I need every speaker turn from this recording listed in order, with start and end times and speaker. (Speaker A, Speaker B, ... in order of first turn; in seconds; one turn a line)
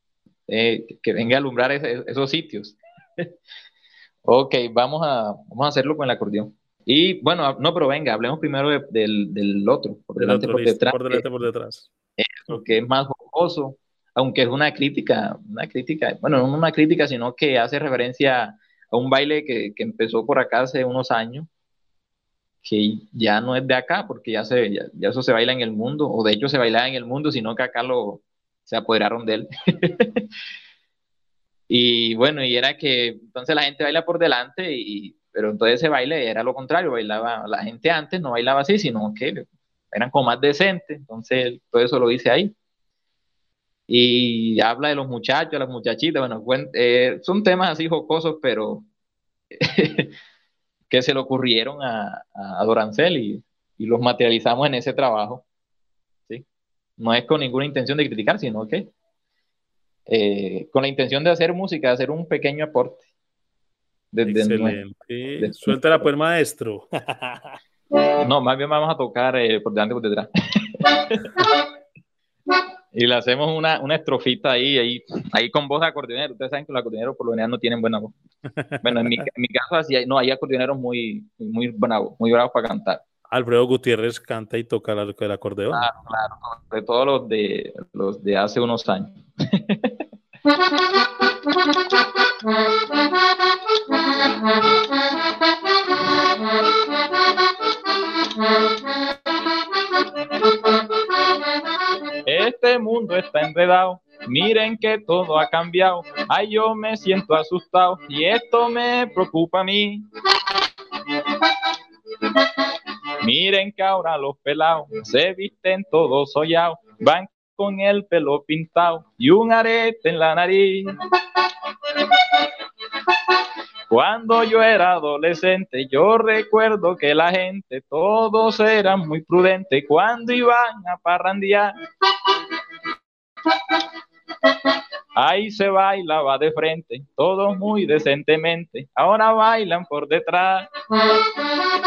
Speaker A: 0.5-3.3
Speaker A: 4.2-11.2
Speaker B: 10.2-11.9
Speaker A: 12.2-21.5
Speaker A: 22.6-30.2
Speaker A: 31.7-42.5
Speaker A: 43.9-48.9
Speaker A: 49.6-50.1
Speaker A: 50.9-55.4
Speaker A: 57.0-58.9
Speaker A: 60.1-63.0
Speaker A: 64.1-64.8
Speaker B: 64.2-67.6
Speaker A: 65.4-66.1
Speaker A: 68.2-71.5
Speaker A: 72.9-78.1
Speaker A: 78.8-83.0
Speaker B: 83.3-85.9
Speaker A: 85.7-89.9
Speaker A: 102.2-110.1
Speaker A: 113.2-120.9
Speaker A: 123.9-131.7
Speaker A: 135.2-140.7